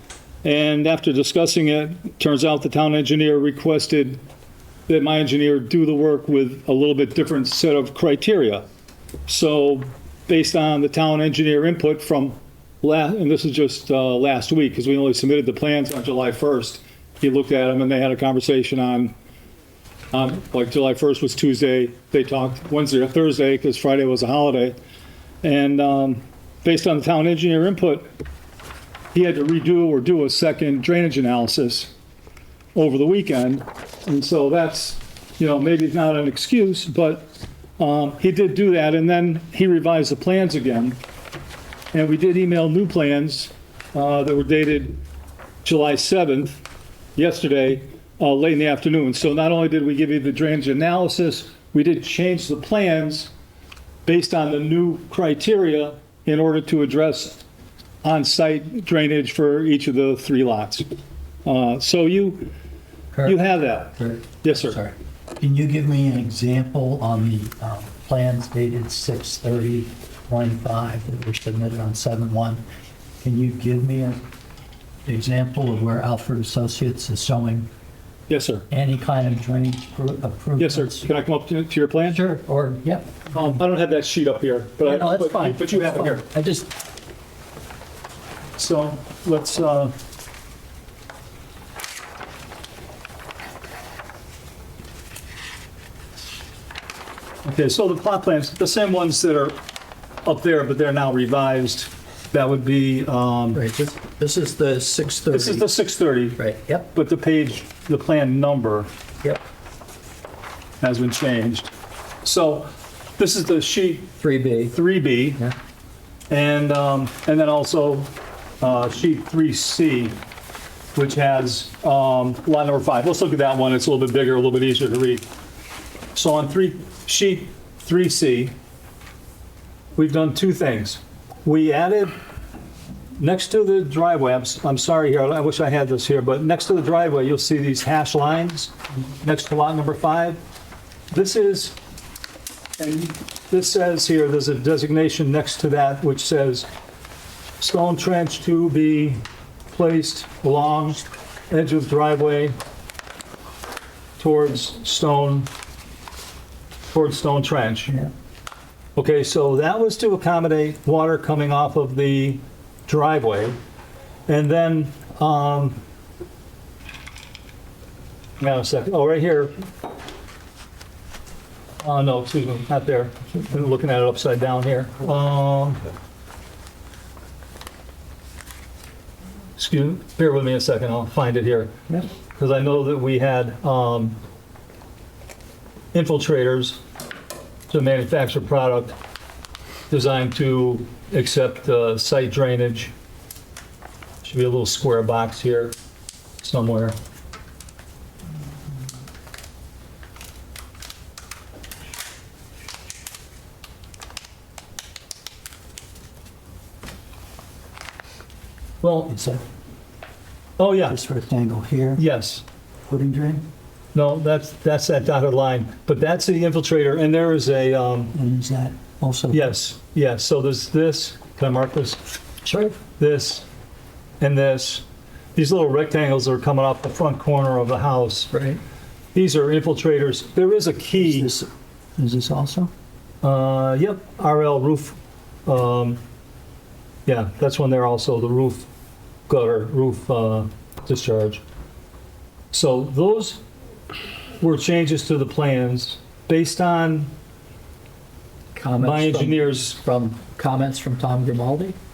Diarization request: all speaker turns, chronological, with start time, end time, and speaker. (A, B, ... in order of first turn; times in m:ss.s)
0:00.4-0:04.2 A
0:04.9-0:08.6 A
0:09.3-0:19.1 A
0:20.1-0:24.8 A
0:25.4-0:28.1 A
0:29.1-0:31.9 A
0:32.7-0:41.0 A
0:41.9-0:45.0 A
0:45.6-0:46.6 A
0:47.2-0:53.3 A
0:54.0-0:57.4 A
0:58.0-1:00.8 A
1:01.4-1:02.5 A
1:03.1-1:12.6 B
1:03.2-1:04.8 A
1:13.2-1:14.2 B
1:15.0-1:17.7 B
1:18.3-1:18.6 A
1:18.7-1:21.1 B
1:20.6-1:22.2 A
1:22.1-1:23.6 B
1:23.3-1:26.3 A
1:24.8-1:26.7 B
1:28.6-1:29.9 A
1:37.4-1:39.6 A
1:40.2-1:43.6 A
1:43.5-1:45.7 B
1:45.3-1:48.9 A
1:46.4-1:46.9 B
1:50.8-1:51.7 A
1:52.2-1:55.4 A
1:54.2-1:54.8 B
1:56.3-2:00.2 A
2:00.9-2:05.2 A
2:06.1-2:08.5 A
2:10.0-2:12.1 A
2:13.2-2:20.4 A
2:21.1-2:21.8 A
2:22.8-2:26.7 A
2:27.6-2:32.6 A
2:34.2-2:35.5 A
2:36.9-2:38.1 A
2:39.0-2:43.6 A
2:44.3-2:45.8 A
2:48.4-2:49.5 A
2:51.8-2:55.8 A
2:59.6-3:04.2 A
3:05.9-3:06.8 A
3:07.7-3:09.0 A
3:09.9-3:12.9 A
3:14.2-3:15.8 A
3:16.4-3:17.0 A
3:28.8-3:29.1 A
3:29.1-3:29.4 B
3:30.6-3:31.0 A
3:30.9-3:32.0 B
3:32.0-3:32.4 A
3:32.9-3:33.4 B
3:33.9-3:38.1 A
3:38.1-3:39.5 B
3:39.3-3:42.0 A
3:42.4-3:42.8 B
3:43.0-3:43.4 A
3:44.2-3:44.8 A
3:45.3-3:48.3 A
3:48.3-3:48.6 B
3:49.1-3:51.3 A
3:51.0-3:52.7 B
3:53.2-3:56.0 A
3:57.0-3:58.7 A
3:59.3-4:01.4 A
4:02.5-4:03.4 A
4:04.4-4:07.1 A
4:08.5-4:11.8 B
4:08.8-4:09.8 A